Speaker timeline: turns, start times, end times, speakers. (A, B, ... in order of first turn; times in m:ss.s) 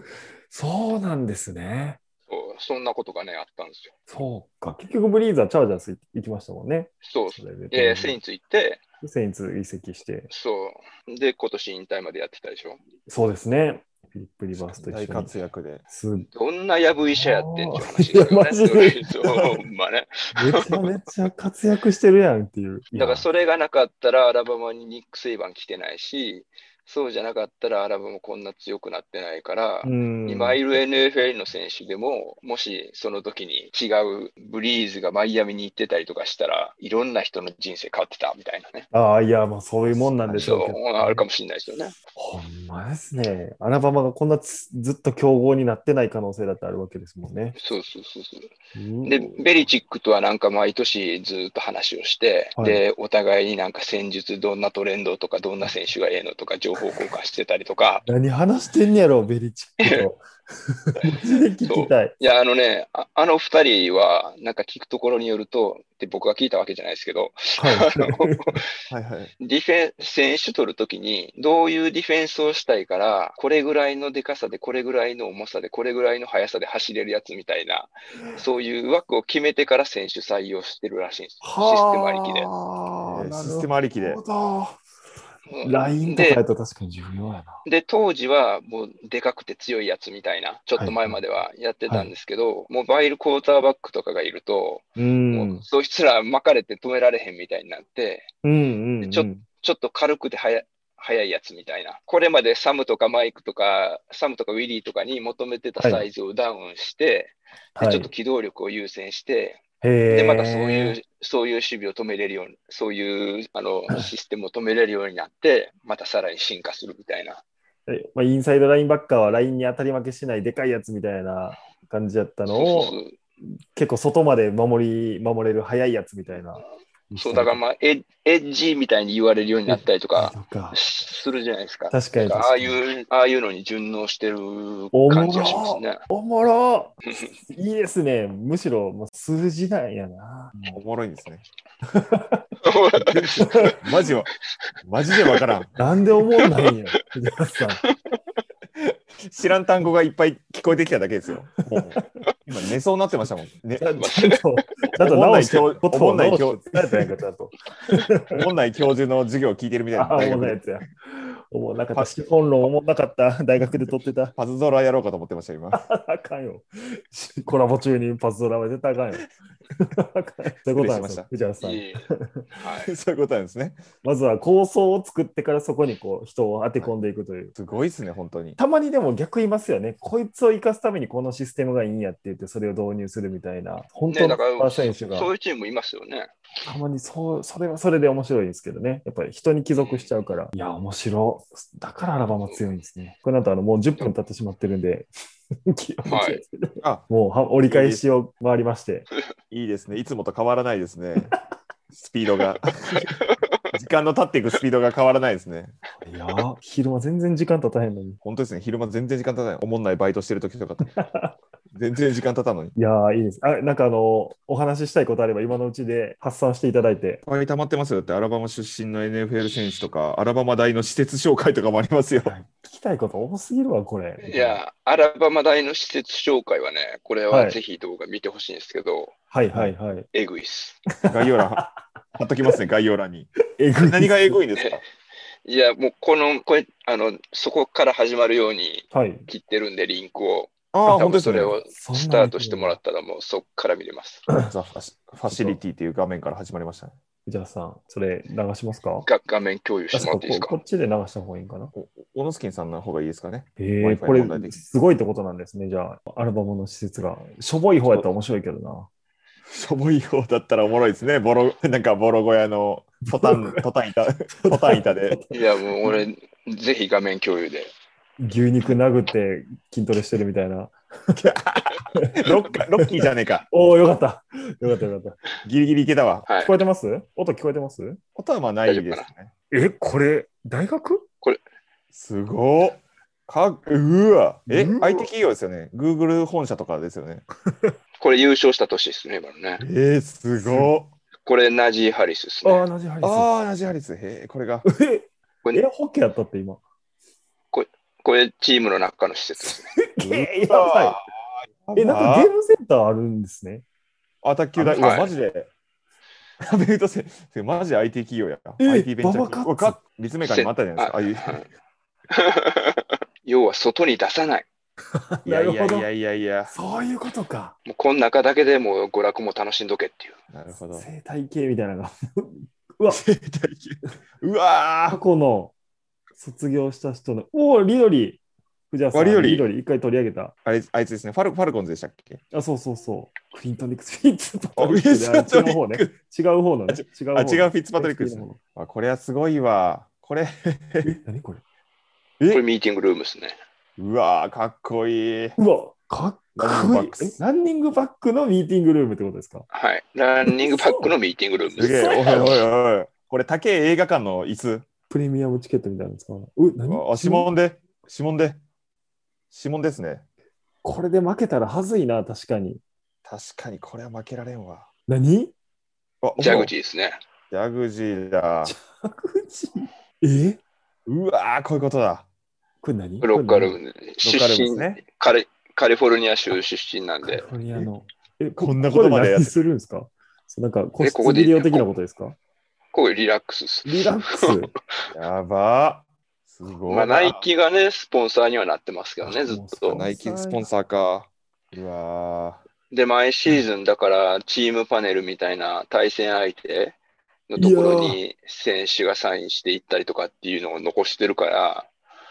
0:00.5-0:02.0 A
0:02.3-0:03.9 B
0:04.1-0:08.2 A
0:07.0-0:08.8 B
0:09.0-0:10.3 A
0:10.3-0:12.8 B
0:13.1-0:15.3 A
0:14.5-0:15.8 C
0:15.9-0:16.3 A
0:16.3-0:20.8 B
0:17.1-0:19.0 A
0:19.3-0:19.6 C
0:20.3-0:23.3 A
0:22.9-0:38.9 B
0:29.8-0:30.6 A
0:38.9-0:41.2 A
0:39.9-0:40.6 C
0:40.4-0:41.9 B
0:42.2-0:47.6 A
0:47.5-0:48.5 B
0:48.7-0:49.6 A
0:49.0-0:58.0 B
0:52.6-0:52.8 A
0:58.0-1:02.1 A
0:59.8-1:00.1 B
1:01.6-1:08.6 B
1:07.6-1:08.6 A
1:08.9-1:09.3 C
1:09.4-1:22.5 B
1:18.2-1:18.4 A
1:21.4-1:24.8 A
1:23.1-1:24.2 C
1:25.5-1:26.4 B
1:25.6-1:27.6 A
1:27.6-1:38.3 B
1:30.8-1:31.2 A
1:35.0-1:35.6 A
1:38.4-1:39.4 A
1:39.0-1:57.4 B
1:45.8-1:46.1 A
1:47.8-1:48.1 A
1:49.8-1:51.0 A
1:57.9-2:03.0 A
2:02.5-2:03.1 B
2:03.7-2:07.6 A
2:07.2-2:16.0 B
2:09.6-2:10.8 A
2:11.9-2:12.8 A
2:14.9-2:20.8 A
2:17.0-2:17.3 B
2:20.7-2:21.4 C
2:21.9-2:22.4 A
2:22.6-2:23.8 B
2:23.0-2:24.3 C
2:23.4-2:23.7 A
2:24.8-2:25.7 C
2:25.7-2:27.8 A
2:28.8-2:33.9 C
2:31.8-2:32.0 A
2:33.8-2:38.3 A
2:34.0-2:34.6 B
2:35.0-2:37.1 C
2:38.3-2:40.6 C
2:39.9-2:44.3 A
2:43.6-2:45.8 C
2:45.8-2:49.3 A
2:49.8-2:52.4 A
2:50.6-2:51.3 C
2:51.6-2:52.9 B
2:52.8-2:53.8 C
2:54.0-2:57.5 A
2:57.6-2:58.6 C
2:58.6-3:05.3 A
3:04.1-3:06.3 B
3:06.6-3:15.1 A
3:09.8-3:10.1 B
3:15.6-3:19.1 A
3:16.0-3:16.4 B
3:16.8-3:17.1 C
3:17.6-3:18.0 C
3:19.5-3:21.3 C
3:21.9-3:23.2 C
3:23.2-3:23.6 B
3:23.7-3:25.7 C
3:26.0-3:28.2 A
3:28.2-3:30.9 C
3:31.0-3:31.3 A
3:31.7-3:32.7 C
3:32.8-3:37.2 A
3:37.2-3:42.3 C
3:42.2-3:44.6 A
3:44.2-3:49.1 B
3:47.3-3:47.6 A
3:49.3-3:50.0 A
3:50.1-3:50.8 B
3:51.0-3:51.7 A
3:51.1-3:51.6 C
3:52.2-3:54.8 C
3:53.6-3:54.4 A
3:55.4-4:04.3 B
3:58.9-3:59.3 A
4:00.7-4:01.6 C
4:01.7-4:02.8 A
4:04.4-4:06.9 C
4:05.3-4:05.6 A
4:07.2-4:09.1 A
4:09.0-4:10.6 B
4:09.9-4:11.7 A
4:11.7-4:14.6 C
4:13.6-4:18.9 A
4:19.5-4:25.2 C
4:23.1-4:23.6 A
4:24.4-4:26.0 A
4:25.3-4:27.7 B
4:28.2-4:31.3 A
4:31.2-4:33.5 C
4:33.5-4:35.2 A
4:35.4-4:36.3 C
4:36.2-4:36.6 B
4:36.4-4:38.0 A
4:38.2-4:39.3 C
4:38.6-4:39.1 B
4:39.5-4:41.0 A
4:41.9-4:47.2 C
4:44.5-4:45.1 A
4:48.0-4:49.6 B
4:49.6-4:50.9 C
4:50.4-4:50.7 A
4:51.2-4:52.6 B
4:52.4-4:53.3 A
4:53.0-4:54.6 C
4:54.6-4:56.6 A
4:57.5-4:59.8 B
4:59.4-5:01.0 A
5:00.0-5:02.3 C
5:01.8-5:03.6 A
5:04.2-5:05.5 C
5:04.7-5:05.1 B
5:06.4-5:11.4 C
5:08.6-5:09.8 A
5:10.2-5:11.5 B
5:12.1-5:14.4 B
5:15.1-5:15.9 A
5:15.2-5:16.5 C
5:16.5-5:17.5 A
5:17.6-5:20.2 B
5:20.3-5:20.9 C
5:20.7-5:23.0 A
5:22.9-5:25.0 C
5:24.9-5:25.5 A
5:26.2-5:28.2 A
5:28.7-5:30.3 A
5:28.9-5:29.5 C
5:30.4-5:32.2 C
5:32.3-5:38.4 A
5:34.6-5:35.9 C
5:36.7-5:40.9 C
5:40.8-5:41.4 A
5:42.3-5:43.4 B
5:43.8-5:45.4 C
5:45.4-5:49.4 A
5:46.4-5:47.2 C
5:49.5-5:52.4 B
5:50.2-5:51.0 A
5:51.6-5:54.6 C
5:51.6-5:52.4 A
5:54.9-5:57.3 A
5:56.6-5:58.4 C
5:59.3-6:00.0 C
6:00.6-6:02.6 A
6:03.0-6:04.7 C
6:04.9-6:05.3 A
6:06.0-6:06.5 C
6:06.2-6:07.0 B
6:07.3-6:08.5 C
6:08.4-6:10.4 A
6:10.9-6:12.0 C
6:12.6-6:13.6 A
6:13.0-6:17.3 B
6:14.0-6:14.8 C
6:17.0-6:22.2 A
6:18.4-6:19.3 C
6:20.8-6:21.7 B
6:22.7-6:24.4 B
6:23.6-6:24.5 A
6:24.9-6:27.2 C
6:26.7-6:29.8 B
6:29.0-6:30.5 A
6:29.7-6:32.4 C
6:32.7-6:36.8 B
6:37.3-6:41.7 B
6:37.4-6:38.0 A